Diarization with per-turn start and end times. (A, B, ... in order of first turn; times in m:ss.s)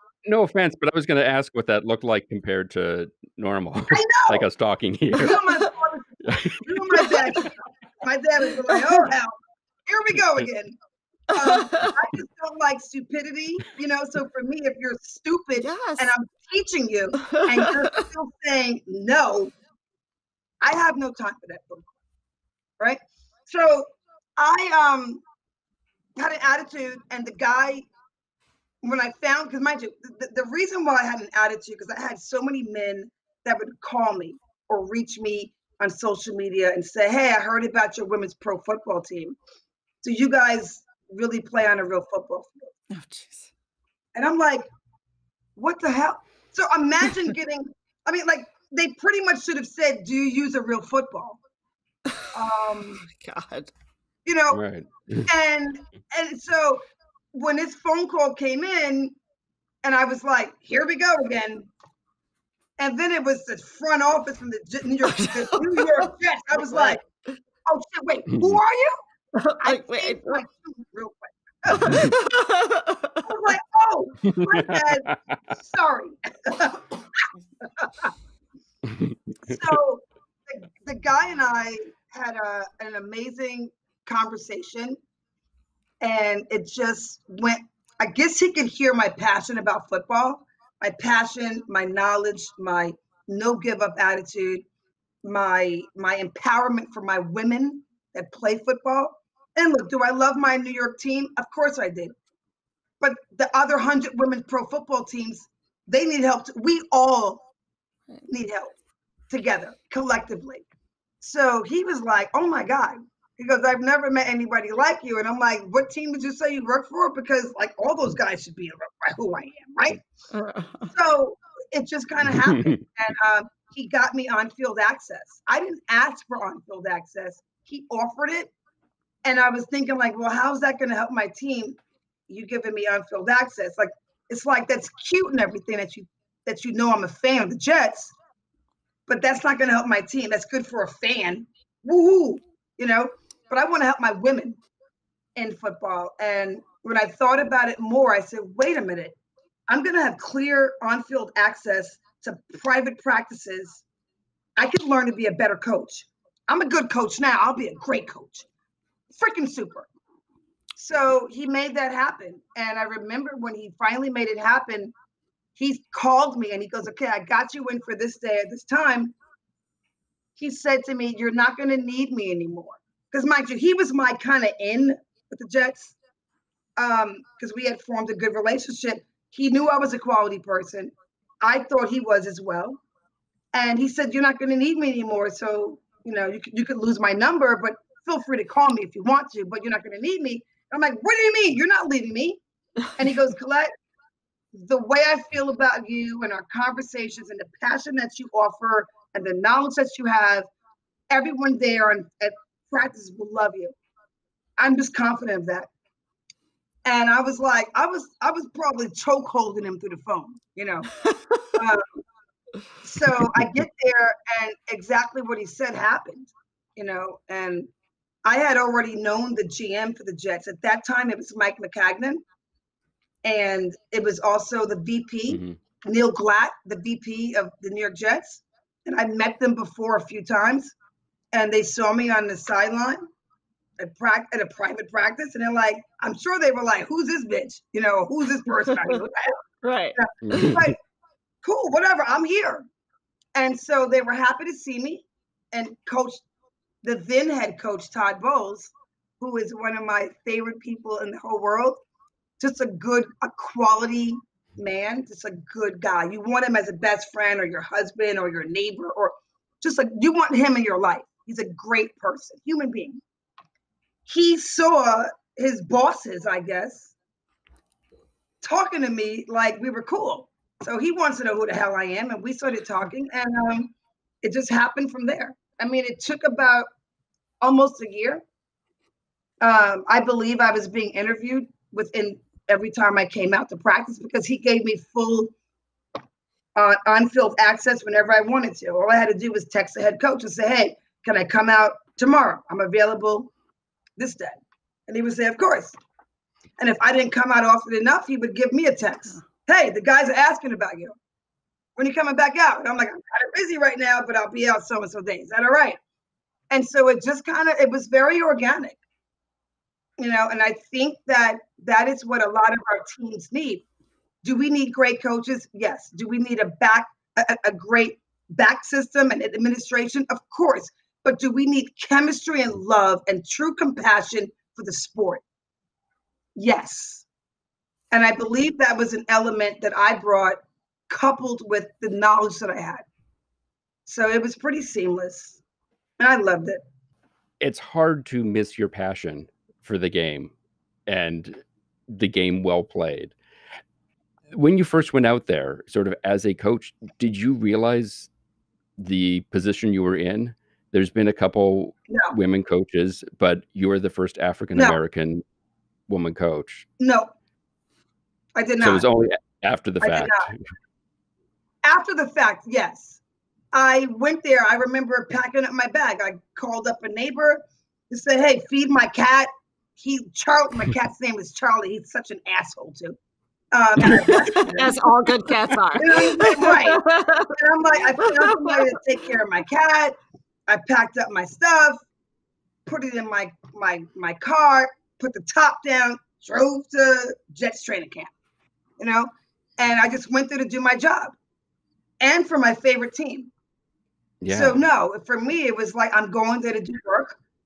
0:00.2-0:05.4 A
0:03.9-0:04.5 B
0:05.2-0:09.3 B
0:05.2-0:05.7 C
0:06.3-0:06.6 A
0:08.7-0:09.0 C
0:09.9-0:10.8 B
0:11.3-0:19.5 B
0:11.3-0:12.0 C
0:15.6-0:16.1 C
0:17.2-0:18.1 C
0:20.6-0:21.9 B
0:22.8-0:25.2 B
0:26.2-0:27.8 B
0:28.8-0:39.4 B
0:40.0-0:42.7 B
0:42.9-0:43.5 C
0:44.2-0:44.7 B
0:45.6-0:51.4 B
0:52.3-0:53.0 B
0:53.0-0:53.7 C
0:54.3-0:54.6 B
0:54.5-0:55.3 A
0:55.3-0:56.8 B
0:57.3-0:59.2 B
0:59.8-1:01.7 B
1:02.8-1:07.0 B
1:05.0-1:07.3 C
1:07.7-1:09.0 B
1:09.4-1:10.4 C
1:09.6-1:12.1 B
1:11.7-1:13.3 C
1:13.2-1:16.9 B
1:14.3-1:15.4 A
1:17.6-1:18.1 B
1:18.9-1:19.6 A
1:19.4-1:25.0 B
1:26.0-1:34.6 B
1:35.2-1:42.1 B
1:43.0-1:47.4 B
1:48.3-1:48.7 B
1:49.3-1:50.6 B
1:51.2-2:00.0 B
2:00.3-2:00.9 C
2:00.9-2:08.5 B
2:02.3-2:02.8 A
2:09.2-2:11.8 B
2:12.3-2:18.1 B
2:19.1-2:24.6 B
2:25.4-2:29.2 B
2:29.7-2:33.8 B
2:34.6-2:38.5 B
2:39.1-2:39.9 B
2:40.8-2:44.9 B
2:45.6-2:49.1 B
2:50.4-2:56.0 B
2:56.8-3:02.8 B
3:03.5-3:12.4 B
3:13.0-3:13.7 B
3:14.5-3:20.5 B
3:21.1-3:23.7 B
3:24.6-3:25.7 B
3:26.8-3:30.9 B
3:31.0-3:31.5 C
3:31.5-3:31.8 B
3:32.8-3:37.7 B
3:38.2-3:42.2 B
3:43.2-3:50.7 B
3:45.3-3:45.6 A
3:51.3-3:53.1 B
3:53.8-3:59.4 B
3:59.6-4:00.5 C
4:00.0-4:00.8 B
4:00.2-4:00.7 A
4:01.4-4:02.6 B
4:03.4-4:06.2 B
4:06.8-4:11.8 B
4:12.4-4:23.0 B
4:24.1-4:26.9 B
4:28.4-4:36.7 B
4:37.4-4:38.2 B
4:39.4-4:45.3 B
4:46.6-4:53.3 B
4:54.0-4:55.8 B
4:56.6-5:01.0 B
5:01.8-5:05.8 B
5:06.5-5:08.8 B
5:10.0-5:13.6 B
5:14.2-5:25.2 B
5:26.4-5:27.0 B
5:27.9-5:30.4 B
5:30.9-5:32.8 B
5:33.9-5:35.4 B
5:36.0-5:36.6 B
5:37.4-5:40.3 A
5:40.9-5:43.2 A
5:44.3-5:48.1 A
5:48.8-5:55.2 A
5:51.9-5:52.2 B
5:55.9-5:56.7 A
5:56.8-5:57.1 B
5:58.4-5:58.9 B
5:58.6-6:00.4 A
5:59.8-6:00.3 B
6:01.6-6:03.0 B
6:03.5-6:13.0 B
6:13.5-6:14.7 B
6:13.8-6:17.4 C
6:15.7-6:20.0 B
6:18.0-6:18.7 C
6:20.5-6:21.8 B
6:22.7-6:28.1 B
6:28.8-6:31.2 B
6:32.0-6:33.3 B
6:34.2-6:34.6 A
6:34.3-6:37.2 B